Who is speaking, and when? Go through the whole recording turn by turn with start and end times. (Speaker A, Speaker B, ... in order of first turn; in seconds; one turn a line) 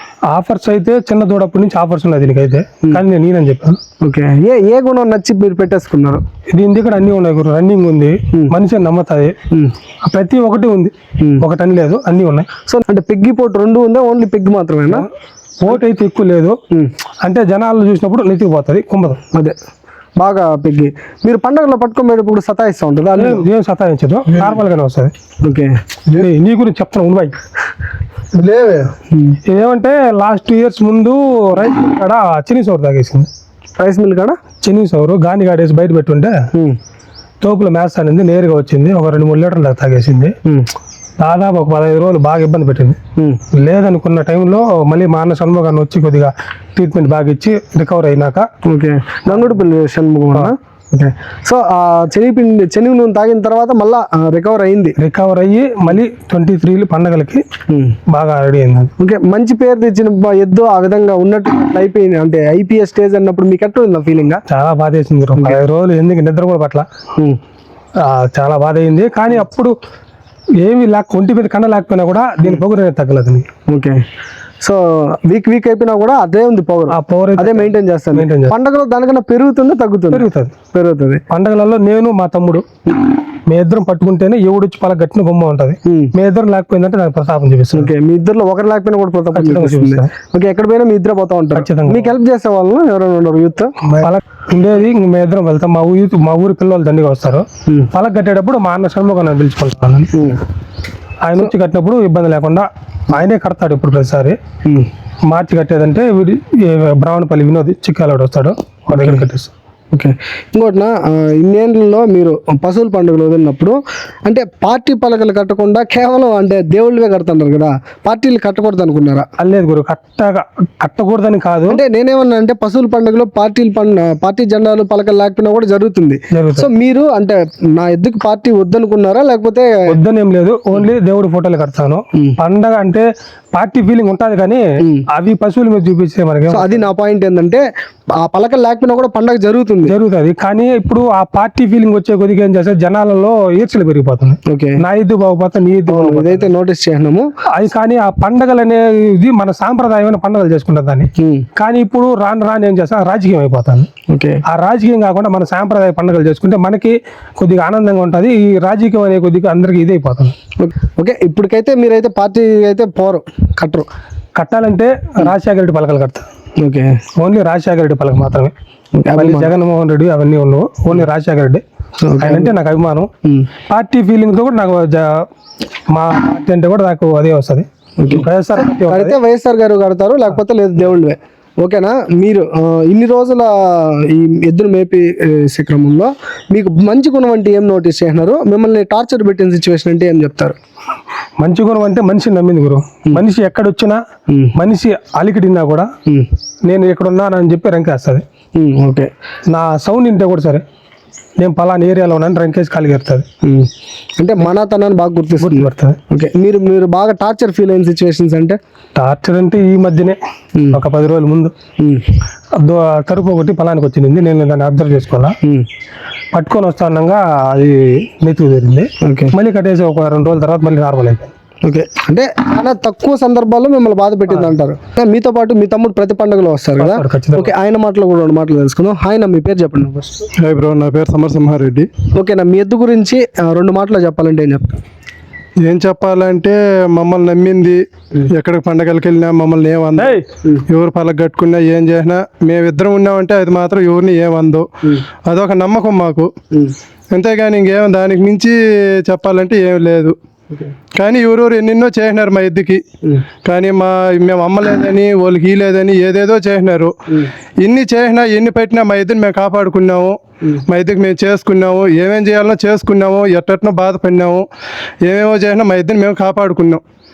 Speaker A: 0.3-3.8
Speaker B: 4.0-6.2
Speaker A: 6.5-9.4
Speaker A: 10.0-12.5
Speaker B: 12.7-15.1
Speaker A: 15.6-16.6
Speaker A: 17.2-19.2
Speaker B: 20.2-23.4
Speaker A: 23.1-25.1
Speaker B: 25.4-25.7
Speaker A: 26.1-27.4
Speaker C: 28.3-28.9
Speaker B: 29.1-29.4
Speaker A: 29.4-33.3
Speaker B: 33.8-34.4
Speaker A: 34.6-36.4
Speaker A: 37.4-40.4
Speaker A: 41.2-43.0
Speaker A: 43.5-48.5
Speaker B: 48.6-55.0
Speaker A: 49.3-49.6
Speaker A: 55.0-57.4
Speaker B: 57.7-58.0
Speaker A: 58.1-58.9
Speaker B: 59.0-64.4
Speaker A: 64.5-66.9
Speaker A: 68.0-69.7
Speaker A: 70.6-73.5
Speaker B: 73.7-74.0
Speaker B: 74.6-81.2
Speaker A: 76.9-78.5
Speaker A: 80.1-80.5
Speaker A: 81.3-82.6
Speaker A: 83.5-87.9
Speaker B: 85.8-86.1
Speaker B: 87.7-94.0
Speaker A: 89.3-90.1
Speaker A: 91.5-92.1
Speaker A: 94.0-100.1
Speaker B: 100.1-100.4
Speaker A: 101.2-104.4
Speaker A: 105.3-109.5
Speaker B: 108.9-109.2
Speaker B: 109.9-119.2
Speaker A: 119.4-121.8
Speaker B: 121.7-129.7
Speaker A: 126.3-126.7
Speaker A: 129.9-136.9
Speaker B: 136.5-137.6
Speaker B: 138.2-139.9
Speaker A: 139.9-146.5
Speaker B: 144.4-144.8
Speaker B: 145.9-147.3
Speaker A: 147.5-153.9
Speaker B: 151.2-151.5
Speaker B: 154.1-154.4
Speaker A: 154.5-160.3
Speaker B: 160.6-163.9
Speaker A: 164.3-166.3
Speaker B: 166.6-167.0
Speaker A: 167.2-168.5
Speaker B: 168.9-169.5
Speaker A: 169.2-171.6
Speaker B: 172.0-172.5
Speaker A: 172.2-173.1
Speaker A: 173.7-175.3
Speaker A: 175.9-179.2
Speaker B: 178.0-190.6
Speaker A: 191.4-194.0
Speaker A: 194.5-195.9
Speaker A: 196.7-198.2
Speaker B: 198.6-199.1
Speaker A: 199.5-200.6
Speaker A: 201.4-203.2
Speaker B: 204.2-208.6
Speaker A: 205.4-206.0
Speaker A: 208.9-210.2
Speaker B: 210.6-210.8
Speaker A: 210.7-211.5
Speaker A: 212.6-215.3
Speaker A: 216.3-221.3
Speaker B: 219.0-219.3
Speaker B: 221.6-230.2
Speaker A: 226.8-227.5
Speaker C: 230.4-231.9
Speaker B: 232.1-234.8
Speaker C: 235.6-244.7
Speaker A: 240.0-240.2
Speaker C: 245.2-246.3
Speaker C: 247.1-250.1
Speaker C: 250.9-252.8
Speaker C: 253.4-256.9
Speaker C: 257.6-264.5
Speaker C: 265.0-266.8